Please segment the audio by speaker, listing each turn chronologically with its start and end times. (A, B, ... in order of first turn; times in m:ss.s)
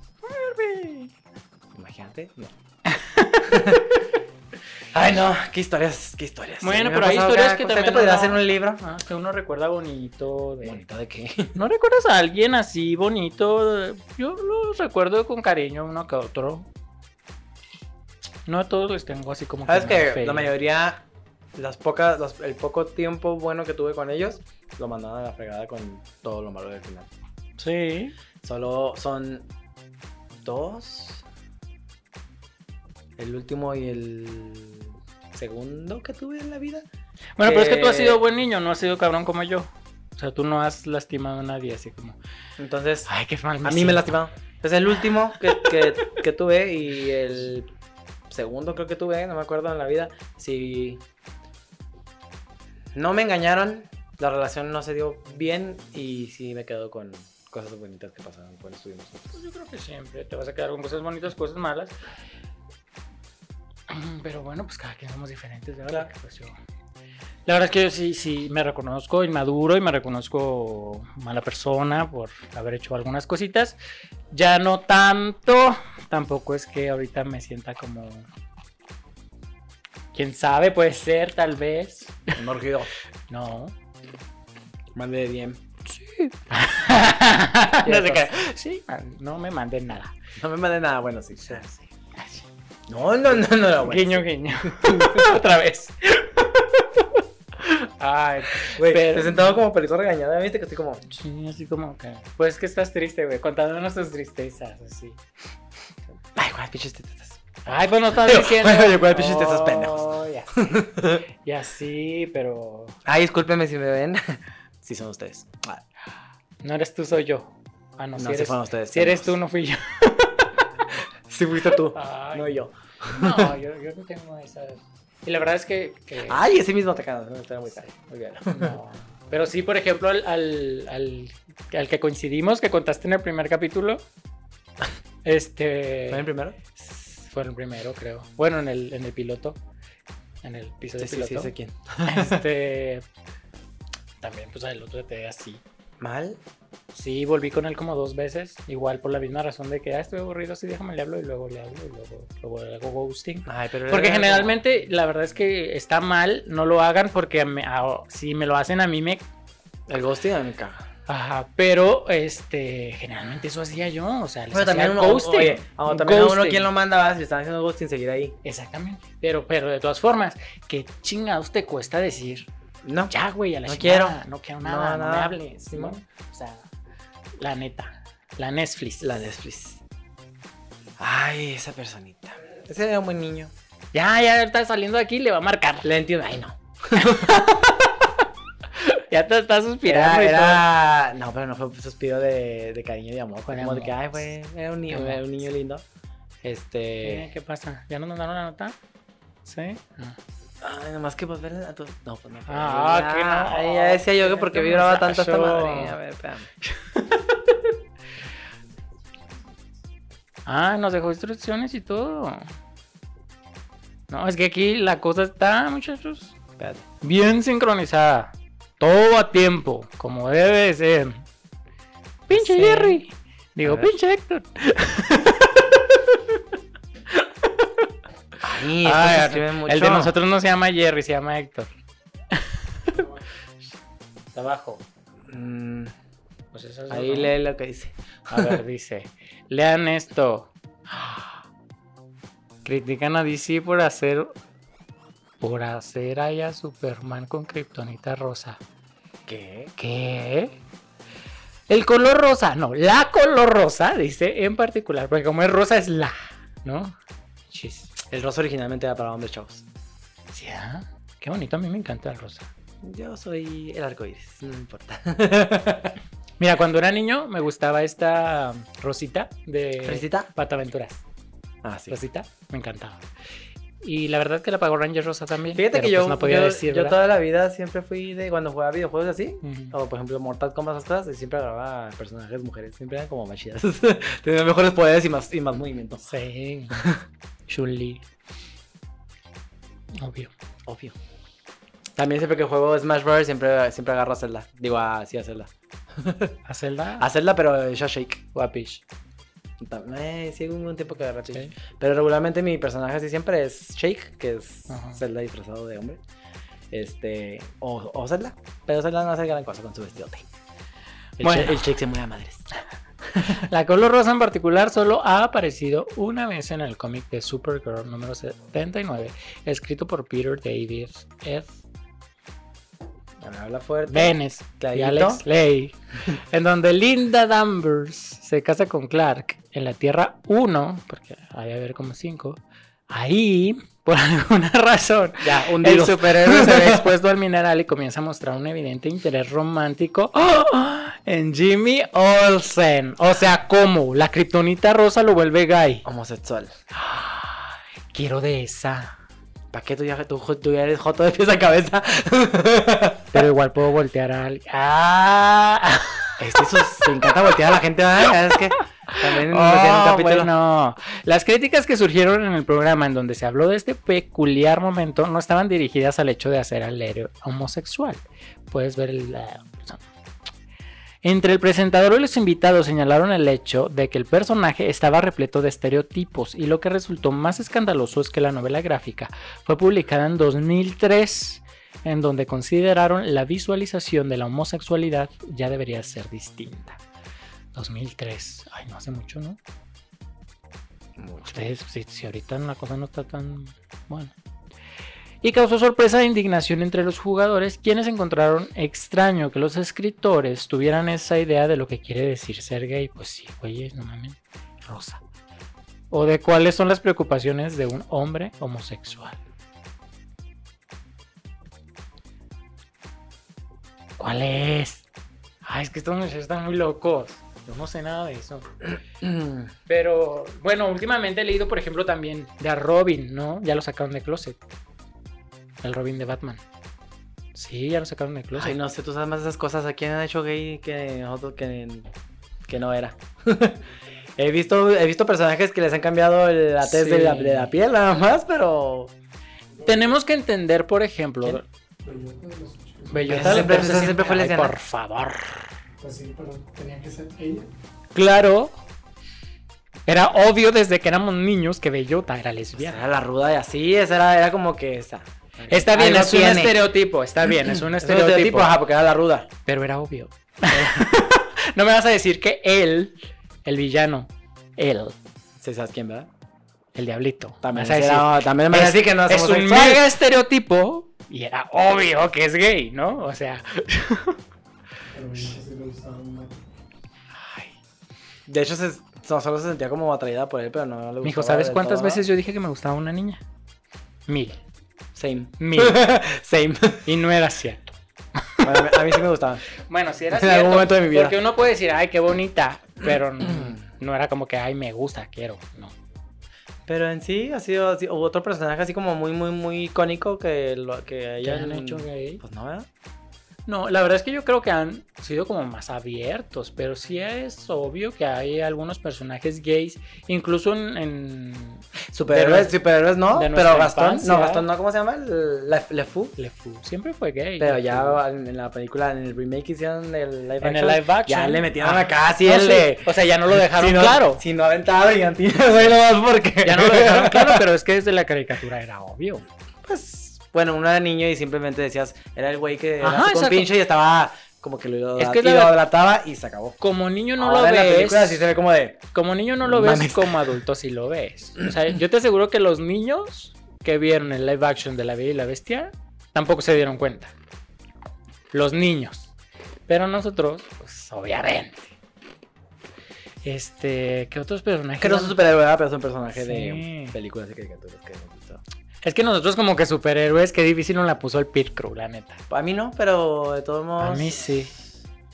0:00.2-0:01.1 A
0:01.7-0:02.5 B
0:02.9-0:03.8 A
0:03.4-0:03.9 B
0:04.9-0:08.8 B
0:06.6-0:10.8 A
0:10.6-0:11.5 B
0:11.5-0:16.7 A
0:18.5-0:20.5 A
0:19.7-0:27.1 B
0:27.6-0:28.1 A
0:28.4-0:29.5 B
0:30.3-0:31.2 B
0:33.2-0:36.9 B
0:37.4-0:42.2 A
0:37.4-0:38.2 B
0:42.6-0:43.1 B
0:43.1-0:44.1 A
0:43.6-0:47.7 B
0:48.3-0:51.0 B
0:52.9-0:59.3 B
0:59.3-1:01.9 A
1:03.9-1:06.6 A
1:07.4-1:13.8 A
1:14.3-1:18.3 A
1:20.1-1:22.4 A
1:22.4-1:22.9 B
1:23.3-1:23.7 A
1:24.9-1:25.6 B
1:25.9-1:30.1 A
1:27.8-1:28.4 B
1:30.4-1:31.6 B
1:31.4-1:32.5 A
1:32.9-1:35.4 B
1:33.8-1:37.0 A
1:37.6-1:39.6 A
1:38.6-1:41.0 B
1:41.1-1:45.2 A
1:46.4-1:47.4 B
1:47.6-1:50.6 A
1:48.1-1:51.2 B
1:51.4-1:53.0 A
1:53.0-1:55.8 B
1:56.6-2:00.5 A
1:58.2-1:59.4 B
2:01.3-2:03.5 B
2:01.9-2:02.5 A
2:03.1-2:06.4 A
2:06.2-2:08.8 B
2:08.5-2:14.0 A
2:15.2-2:19.6 A
2:16.1-2:16.6 B
2:20.4-2:21.5 A
2:21.0-2:22.4 B
2:22.0-2:23.0 A
2:24.2-2:25.6 A
2:26.0-2:26.4 B
2:26.9-2:39.2 A
2:33.4-2:34.6 B
2:39.9-2:40.9 B
2:41.1-2:46.7 A
2:44.5-2:48.4 B
2:48.4-2:52.5 A
2:52.8-2:53.1 B
2:53.1-2:56.6 A
2:53.6-2:56.0 B
2:57.4-2:59.3 A
2:59.0-2:59.8 B
3:01.0-3:03.5 B
3:03.9-3:05.9 A
3:05.8-3:07.8 B
3:07.1-3:07.6 A
3:08.8-3:10.6 A
3:09.9-3:15.8 B
3:13.5-3:13.9 A
3:14.9-3:15.2 A
3:16.4-3:17.3 B
3:17.0-3:18.8 A
3:19.4-3:20.2 A
3:20.6-3:26.5 B
3:22.5-3:26.0 A
3:26.7-3:27.2 A
3:30.4-3:32.5 A
3:34.1-3:36.4 A
3:36.6-3:36.8 B
3:37.0-3:41.2 A
3:42.3-3:46.4 A
3:42.3-3:43.0 B
3:43.6-3:43.9 B
3:47.1-3:47.6 A
3:48.4-3:50.1 B
3:48.8-3:51.7 A
3:52.3-3:53.0 A
3:54.3-3:54.8 A
3:55.3-3:55.9 B
3:56.5-3:57.3 A
3:56.9-3:58.6 B
3:58.3-4:01.3 A
4:02.6-4:04.3 A
4:05.4-4:08.6 A
4:09.3-4:09.7 B
4:09.8-4:10.6 A
4:11.7-4:17.0 A
4:17.5-4:17.9 A
4:18.1-4:19.6 B
4:20.3-4:22.5 A
4:22.8-4:26.0 B
4:26.4-4:31.0 A
4:29.8-4:30.3 B
4:31.6-4:32.0 B
4:31.9-4:33.0 A
4:33.8-4:37.0 A
4:35.5-4:46.1 B
4:39.4-4:39.7 A
4:46.0-4:46.9 A
4:46.7-4:47.0 B
4:47.5-4:48.0 A
4:50.0-4:50.3 A
4:50.6-4:51.0 B
4:52.0-4:56.4 B
4:56.5-4:57.1 A
4:57.0-4:58.3 B
4:58.4-4:58.8 A
4:59.6-5:06.0 B
5:04.7-5:05.0 A
5:06.7-5:10.3 B
5:11.2-5:12.5 B
5:11.2-5:11.6 A
5:13.1-5:13.4 B
5:13.2-5:21.6 A
5:23.2-5:25.2 B
5:23.9-5:45.8 A
5:35.2-5:36.9 B
5:45.8-5:46.5 B
5:46.7-5:48.9 A
5:49.5-5:53.2 B
5:53.1-5:56.2 A
5:56.2-6:00.3 B
5:58.9-6:09.9 A
6:11.0-6:26.8 A
6:27.5-6:29.4 A
6:31.0-6:31.5 B
6:31.2-6:34.1 A
6:35.2-6:45.0 A
6:45.9-6:49.2 A
6:54.0-6:54.9 A
6:55.4-6:58.5 A
6:59.0-6:59.5 B
6:59.7-7:04.4 A
7:05.6-7:06.4 A
7:07.4-7:08.6 A
7:08.4-7:11.9 B
7:12.5-7:13.6 B
7:14.2-7:18.9 B
7:16.6-7:17.5 A
7:19.6-7:21.4 A
7:21.8-7:23.6 C
7:22.9-7:25.5 A
7:23.1-7:24.5 B
7:25.8-7:27.5 C
7:27.9-7:28.5 A
7:29.9-7:32.9 A
7:32.5-7:36.6 B
7:35.5-7:38.5 A
7:37.5-7:39.3 B
7:39.4-7:45.0 A
7:40.5-7:40.8 B
7:45.4-7:46.1 B
7:46.7-7:54.2 A
7:47.4-7:49.9 B
7:54.9-7:56.4 C
7:57.1-7:57.5 A
7:58.3-8:02.0 B
8:01.0-8:03.2 A
8:04.1-8:04.4 A
8:04.9-8:06.9 B
8:05.4-8:05.9 A
8:06.8-8:07.7 A
8:08.2-8:08.7 A
8:08.4-8:09.4 B
8:09.6-8:15.7 A
8:10.1-8:11.2 B
8:13.2-8:13.6 B
8:16.7-8:22.7 B
8:21.2-8:22.2 A
8:23.4-8:32.6 A
8:31.9-8:36.2 B
8:33.1-8:34.5 A
8:36.2-8:38.0 A
8:37.4-8:47.4 B
8:40.4-8:44.2 A
8:46.4-8:49.2 A
8:49.6-8:56.6 B
8:52.8-8:53.5 A
8:55.0-8:55.6 A
8:56.6-8:58.2 A
8:57.2-8:58.8 B
8:58.9-9:07.1 A
8:59.4-9:00.2 B
9:08.3-9:09.1 A
9:09.7-9:11.7 A
9:13.2-9:15.2 A
9:14.8-9:18.4 B
9:16.1-9:17.0 A
9:18.8-9:22.2 A
9:22.3-9:24.2 B
9:23.8-9:24.6 A